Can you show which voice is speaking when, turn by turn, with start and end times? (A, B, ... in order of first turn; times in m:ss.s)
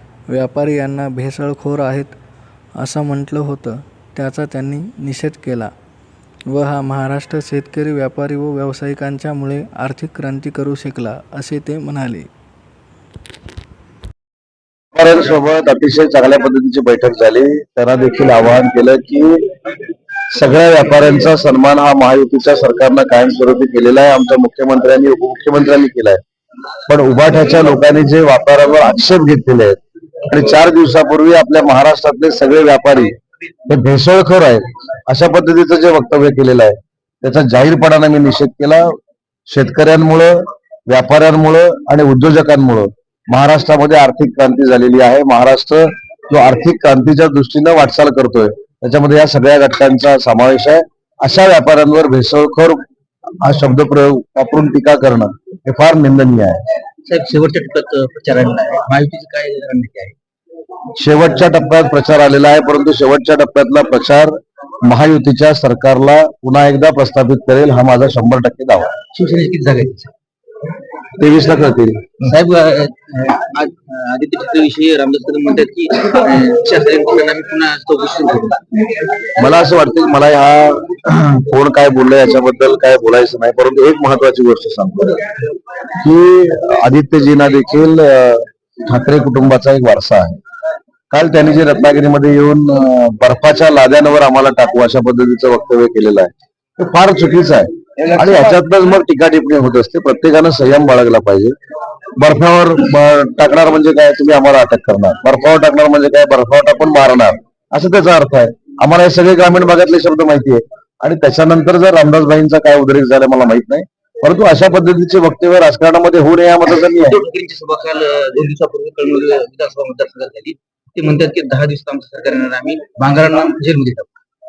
0:00.3-0:02.2 A
0:02.8-0:05.7 A
0:06.5-0:12.3 A
0:14.9-0:19.4 B
0:20.3-0:26.2 B
0:26.9-0:33.2 B
0:33.7-0:38.9 B
0:39.5-0:52.8 B
0:53.4-0:56.6 B
0:57.1-1:00.1 C
1:01.0-1:08.9 B
1:09.1-1:10.1 C
1:11.2-1:12.1 B
1:12.2-1:18.6 C
1:19.4-1:25.2 B
1:26.0-1:30.4 B
1:31.1-1:41.5 B
1:42.2-1:57.2 B
1:57.0-2:04.1 C